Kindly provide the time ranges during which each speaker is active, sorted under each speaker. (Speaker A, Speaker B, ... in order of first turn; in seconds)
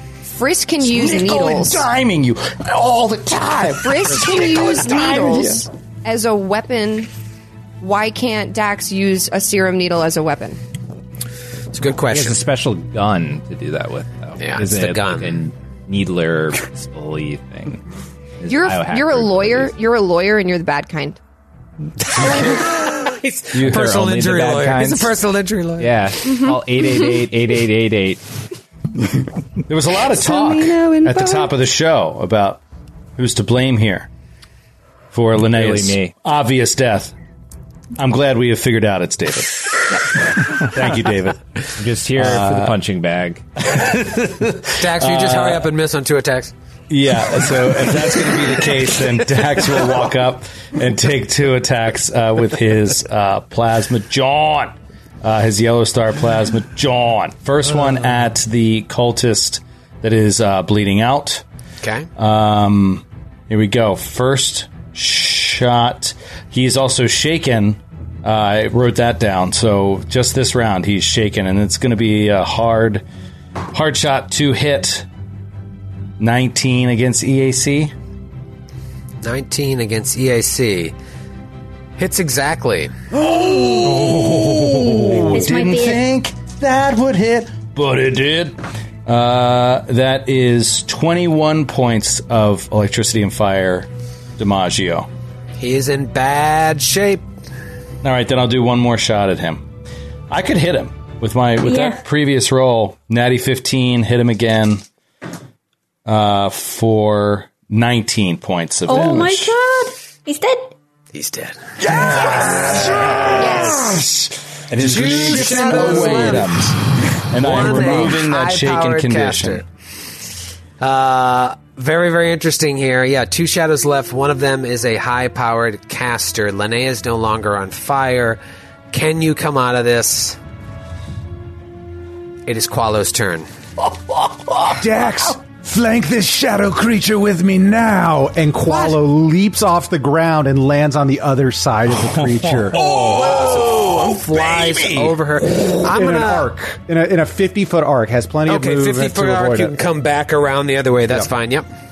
Speaker A: 0.2-1.9, 3.6-7.1, 7.8-10.6, 18.5-21.2, 26.3-26.6, 30.0-31.5
Speaker B: 0.8-5.7, 23.5-23.9, 29.7-32.6, 33.2-34.1, 35.1-37.1, 38.0-41.4, 42.1-42.8, 43.6-45.7, 46.9-61.4, 62.2-73.0, 73.7-75.1, 76.2-77.9, 83.1-95.1, 98.0-99.7, 100.3-104.8, 106.0-109.5, 111.8-119.6, 134.1-134.8, 141.9-145.2
Speaker C: 11.7-12.4, 14.4-15.4, 22.1-26.0, 44.8-46.5, 61.8-62.1, 79.2-80.9, 82.0-82.9, 95.6-97.2, 111.1-111.7, 113.4-113.6, 114.8-116.7, 117.3-119.6, 120.8-128.4, 128.9-130.4, 132.4-133.5, 138.7-138.9, 142.9-146.5, 148.5-151.7
Speaker D: 12.1-17.8, 18.4-19.7, 23.6-25.1, 25.8-28.3, 35.4-36.1, 41.8-43.4
Speaker E: 85.3-86.0, 101.6-102.0, 108.9-110.7
Speaker F: 134.8-142.8, 145.8-149.7